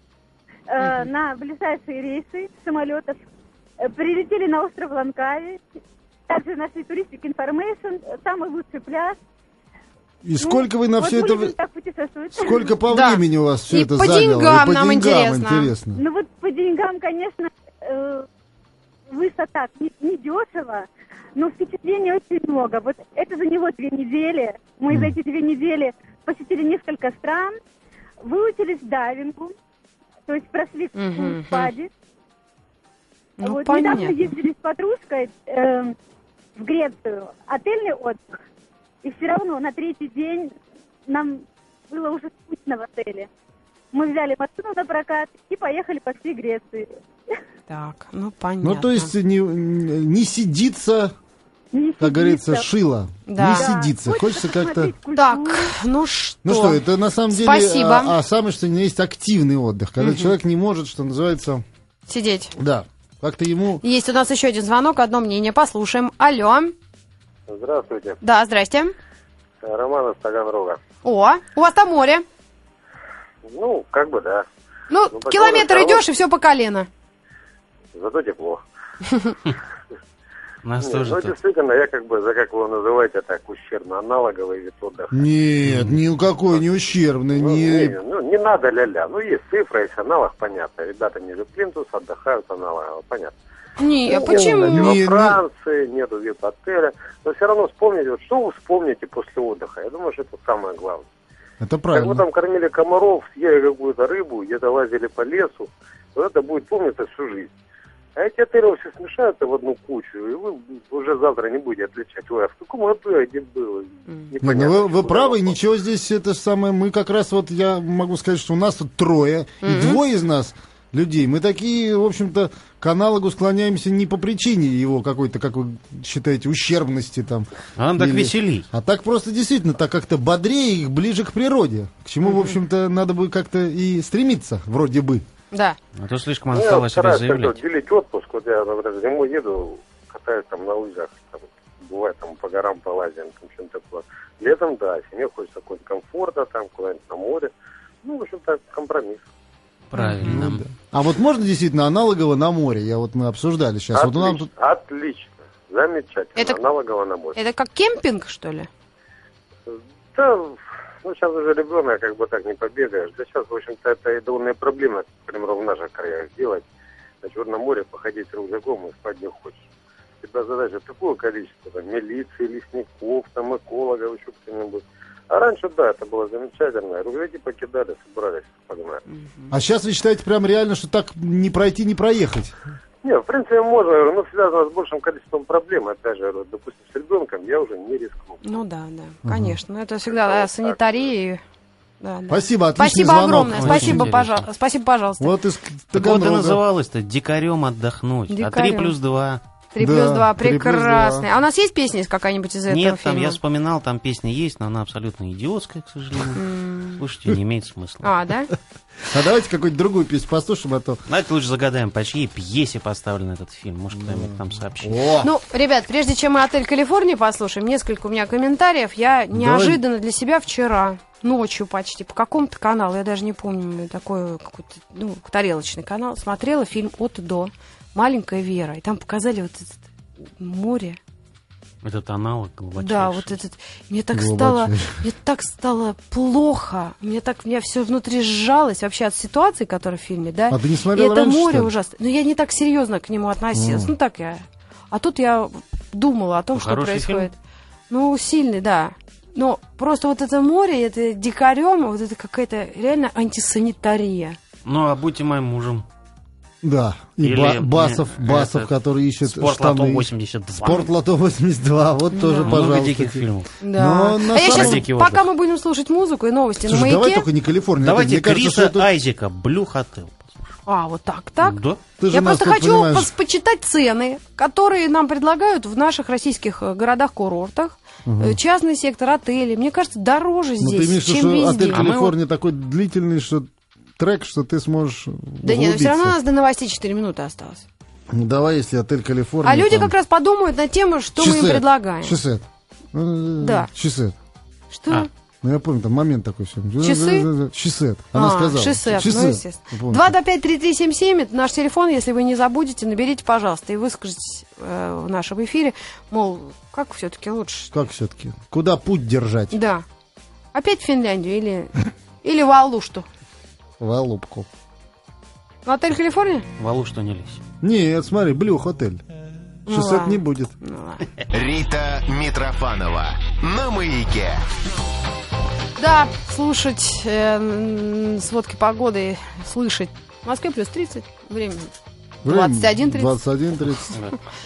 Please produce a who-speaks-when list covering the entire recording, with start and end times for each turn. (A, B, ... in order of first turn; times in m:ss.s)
0:00.7-0:03.2 A
0:00.8-0:01.1 B
0:03.8-0:05.6 A
0:06.3-0:09.2 A
0:10.2-0:11.6 C
0:10.4-0:12.7 A
0:12.3-0:16.0 C
0:12.9-0:15.7 B
0:16.0-0:18.3 A
0:19.1-0:27.6 A
0:28.2-0:29.5 A
0:30.3-0:31.9 A
0:31.0-0:31.7 B
0:33.4-0:34.3 B
0:33.4-0:36.0 A
0:36.6-0:38.3 A
0:39.0-0:40.5 A
0:41.1-0:43.3 A
0:43.9-0:46.9 A
0:47.7-0:49.1 B
0:48.6-0:51.1 C
0:51.7-0:52.7 A
0:52.0-0:54.9 C
0:53.3-0:53.7 B
0:53.5-0:55.8 A
0:55.2-0:58.2 B
0:56.4-1:01.6 C
1:00.0-1:00.3 B
1:02.1-1:02.6 B
1:02.6-1:03.8 C
1:03.8-1:06.7 B
1:07.5-1:08.2 D
1:08.2-1:08.9 B
1:09.6-1:10.8 D
1:11.0-1:12.2 B
1:13.5-1:14.5 D
1:14.9-1:16.9 B
1:15.1-1:16.0 D
1:18.0-1:18.6 D
1:20.6-1:21.4 E
1:20.8-1:25.2 D
1:25.1-1:28.0 C
1:25.6-1:26.0 E
1:27.4-1:33.4 D
1:33.8-1:34.9 B
1:34.1-1:41.1 D
1:34.2-1:35.4 C
1:41.6-1:42.2 C
1:41.9-1:47.5 D
1:48.2-1:55.6 D
1:54.4-2:15.2 C
1:59.6-2:00.0 B
2:07.8-2:08.7 E
2:12.2-2:12.6 B
2:15.5-2:15.8 B
2:16.0-2:17.6 E
2:16.5-2:27.5 D
2:28.0-2:29.2 D
2:29.9-2:30.7 E
2:30.0-2:30.4 B
2:30.2-2:34.5 C
2:33.9-2:37.4 D
2:37.4-2:38.7 B
2:39.7-2:46.6 D
2:47.2-2:49.6 D
2:50.2-2:59.0 D
2:59.1-2:59.5 B
2:59.5-3:02.5 C
3:03.0-3:08.6 D
3:08.4-3:11.4 B
3:09.2-3:09.6 C
3:10.3-3:10.7 D
3:12.0-3:15.3 B
3:12.3-3:14.1 C
3:13.5-3:14.5 E
3:15.2-3:16.6 C
3:16.0-3:19.4 E
3:18.3-3:18.9 B
3:19.7-3:23.4 B
3:19.8-3:21.3 C
3:22.7-3:26.4 E
3:26.4-3:27.0 B
3:27.0-3:28.1 E
3:28.0-3:28.5 B
3:29.1-3:31.0 C
3:31.1-3:35.0 E
3:34.0-3:35.3 C
3:35.2-3:49.9 B
3:39.3-3:39.8 C
3:50.4-3:51.0 B
3:51.8-3:53.4 E
3:52.8-4:07.4 B
3:54.1-3:55.0 C
4:00.5-4:01.7 C
4:03.5-4:03.9 C
4:06.5-4:07.3 E
4:07.9-4:14.4 B
4:14.6-4:15.9 E
4:16.6-4:24.8 C
4:17.2-4:18.7 E
4:19.2-4:20.9 E
4:22.1-4:22.5 B
4:22.5-4:23.5 E
4:23.6-4:27.3 B
4:24.4-4:25.3 E
4:26.6-4:28.9 C
4:27.8-4:30.6 E
4:30.7-4:31.6 B
4:31.4-4:31.8 E
4:32.0-4:33.1 C
4:32.1-4:41.8 B
4:38.1-4:38.4 C
4:40.6-4:46.2 C
4:41.7-4:42.2 E
4:45.4-4:47.7 B
4:48.1-4:50.0 C
4:49.4-4:52.2 B
4:51.2-4:54.2 C
4:53.4-4:53.7 B
4:54.7-4:55.1 B
4:55.4-5:00.2 C
4:56.8-4:57.3 B
4:58.2-5:07.7 B
5:07.7-5:09.6 C
5:09.5-5:09.8 B
5:10.5-5:13.1 B
5:13.8-5:14.5 C
5:15.7-5:16.5 B
5:16.6-5:17.4 E
5:17.6-5:19.0 C
5:19.7-5:20.5 C
5:19.7-5:21.1 B
5:21.3-5:24.4 F
5:25.8-5:31.7 B
5:32.2-5:34.0 C
5:32.2-5:33.2 B
5:33.9-5:34.2 E